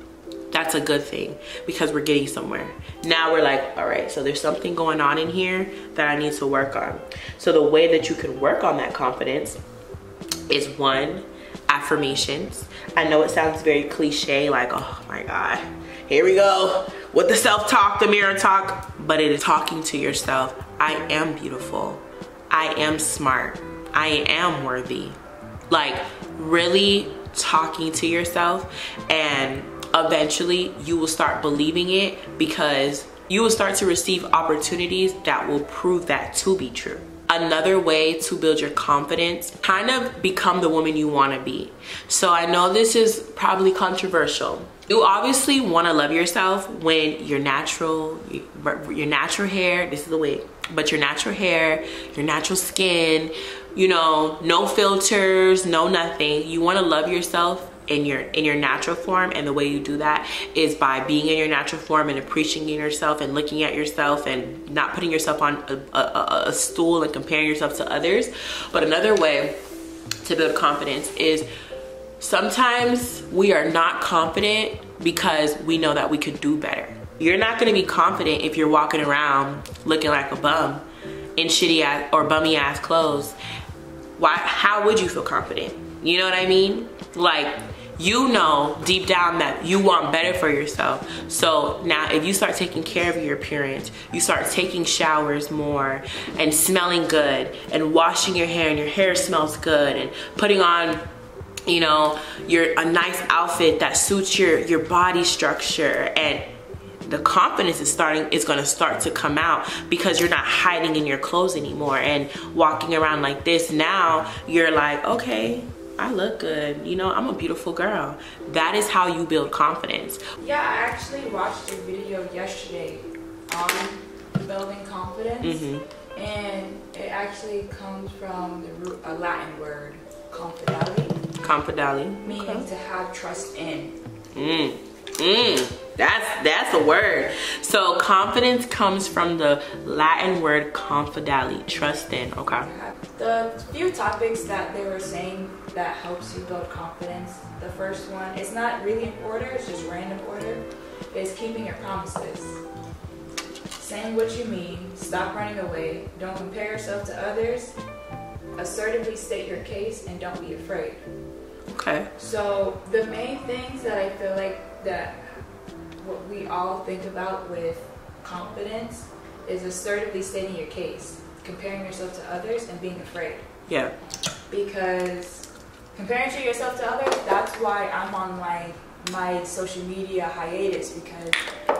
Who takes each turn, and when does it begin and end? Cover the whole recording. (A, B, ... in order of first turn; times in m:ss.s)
0:00.5-0:09.6 A
0:10.5-0:25.2 A
0:25.7-1:09.6 A
1:10.2-1:11.5 A
1:12.2-1:20.8 A
1:21.4-1:23.4 A
1:24.2-1:41.0 A
1:41.7-1:46.5 A
1:47.1-2:00.2 A
2:00.4-2:05.6 B
2:05.4-2:05.8 A
2:06.1-2:11.2 B
2:11.4-2:12.6 A
2:12.2-2:14.0 B
2:14.3-2:22.7 A
2:22.7-2:32.6 B
2:33.8-2:37.8 B
2:38.6-2:41.0 B
2:41.7-2:42.1 A
2:42.2-2:45.4 B
2:46.0-2:53.4 B
2:53.7-2:53.9 A
2:54.5-3:01.4 B